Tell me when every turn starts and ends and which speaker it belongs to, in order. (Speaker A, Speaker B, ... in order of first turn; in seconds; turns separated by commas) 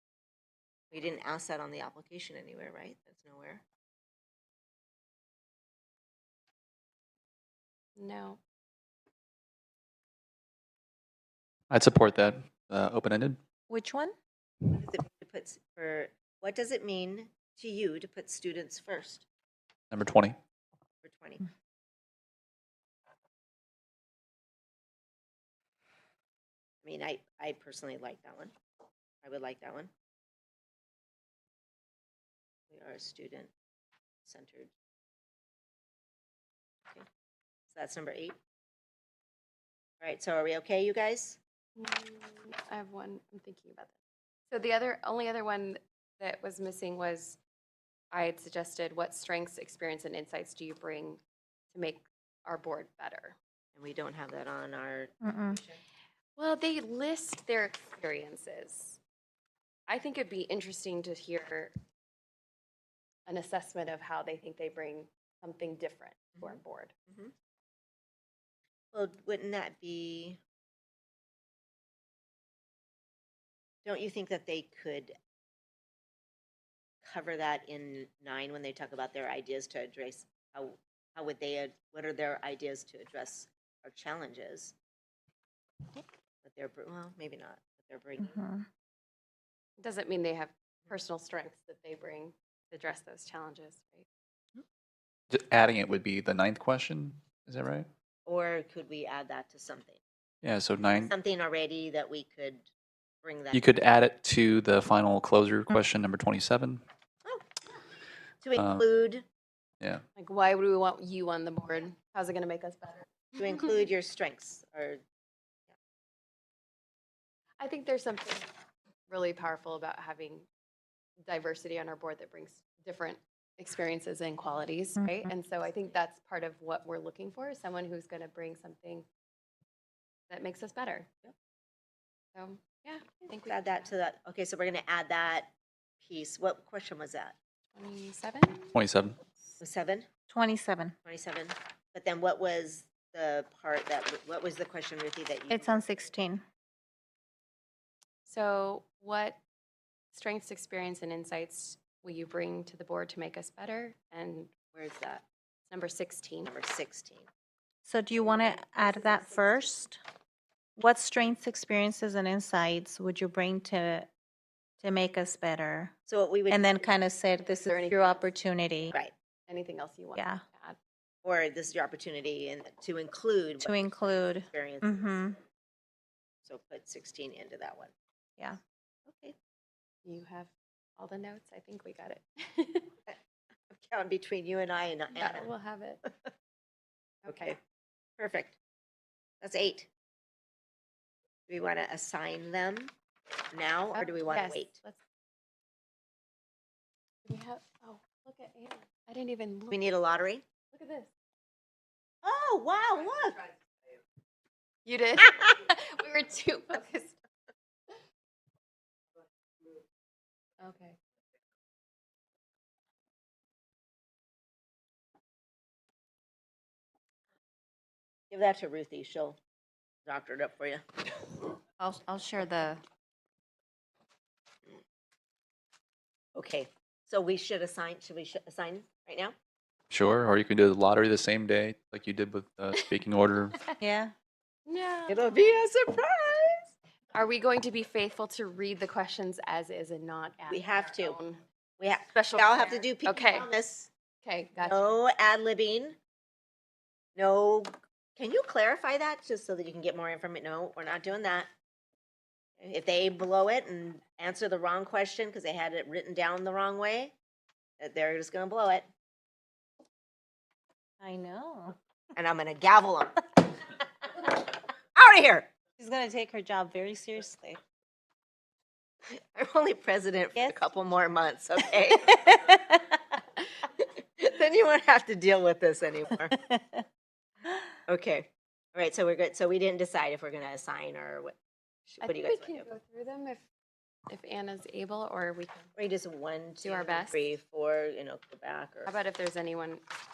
Speaker A: 0.9-3.6, Speaker B: 8.0-8.4, Speaker C: 11.7-13.4, Speaker D: 13.7-14.1, Speaker A: 14.7-19.2, Speaker C: 19.9-20.4, Speaker A: 21.0-21.4, Speaker A: 26.8-28.5, Speaker A: 29.2-29.9, Speaker A: 32.7-33.5, Speaker A: 34.2-34.7, Speaker A: 37.7-38.4, Speaker A: 40.0-41.4, Speaker B: 41.8-43.9, Speaker B: 44.5-47.4, Speaker B: 48.1-51.2, Speaker B: 51.7-53.3, Speaker A: 53.7-55.8, Speaker D: 55.2-55.6, Speaker B: 56.4-59.0, Speaker B: 59.9-61.7, Speaker B: 63.3-66.9, Speaker A: 66.4-67.3, Speaker A: 68.9-70.4, Speaker A: 73.8-75.2, Speaker A: 77.0-84.7, Speaker A: 86.4-88.4, Speaker D: 88.3-88.7, Speaker B: 89.8-94.1, Speaker C: 95.3-97.9, Speaker A: 98.2-100.0, Speaker C: 100.4-101.1, Speaker A: 101.0-102.7, Speaker A: 103.2-103.6, Speaker C: 103.5-106.8, Speaker A: 108.4-109.2, Speaker C: 108.6-108.8, Speaker B: 110.2-113.1, Speaker A: 113.3-115.0, Speaker B: 117.6-118.5, Speaker B: 119.1-120.5, Speaker B: 121.2-129.1, Speaker D: 125.0-125.3, Speaker B: 130.3-131.3, Speaker B: 132.3-133.8, Speaker A: 133.4-137.3, Speaker B: 137.8-138.8, Speaker C: 138.7-139.2, Speaker A: 139.6-140.1, Speaker D: 140.3-140.9, Speaker A: 141.0-145.8, Speaker D: 145.5-146.4, Speaker B: 148.2-149.4, Speaker B: 150.1-154.5, Speaker A: 154.7-155.2, Speaker B: 155.7-156.5, Speaker A: 156.4-157.3, Speaker D: 157.8-160.0, Speaker D: 160.8-164.1, Speaker D: 164.8-165.9, Speaker A: 166.1-166.8, Speaker D: 166.5-168.9, Speaker B: 167.6-168.2, Speaker B: 169.5-170.8, Speaker D: 170.2-170.4, Speaker A: 171.2-175.2, Speaker D: 173.6-175.4, Speaker A: 176.4-177.9, Speaker A: 179.1-179.3, Speaker B: 180.0-182.9, Speaker A: 183.7-185.5, Speaker B: 185.1-186.0, Speaker B: 187.2-187.5, Speaker A: 187.3-187.6, Speaker A: 188.2-188.6, Speaker A: 189.4-189.9, Speaker A: 191.5-192.9, Speaker A: 193.5-194.8, Speaker B: 193.9-195.0, Speaker B: 197.2-199.8, Speaker A: 199.7-200.4, Speaker B: 200.7-201.1, Speaker A: 202.2-203.4, Speaker B: 204.8-207.2, Speaker B: 210.6-211.0, Speaker A: 218.3-219.4, Speaker A: 220.1-220.8, Speaker D: 221.8-222.8, Speaker A: 226.3-229.3, Speaker C: 229.9-233.6, Speaker D: 233.8-234.1, Speaker B: 234.7-235.3, Speaker A: 235.1-236.7, Speaker B: 237.1-241.4, Speaker A: 240.5-241.2, Speaker A: 241.8-243.9, Speaker B: 242.1-243.5, Speaker B: 244.2-244.9, Speaker A: 244.6-246.0, Speaker A: 247.2-251.5, Speaker A: 252.6-257.1, Speaker A: 257.8-258.9, Speaker D: 261.0-261.8, Speaker A: 262.1-263.4, Speaker A: 264.9-265.5, Speaker D: 265.8-267.6, Speaker A: 269.3-272.6, Speaker A: 273.8-276.3, Speaker D: 276.4-276.8, Speaker A: 277.9-282.7, Speaker B: 282.0-283.4, Speaker B: 284.1-285.7, Speaker A: 285.8-288.9, Speaker B: 286.6-287.1, Speaker B: 288.9-289.8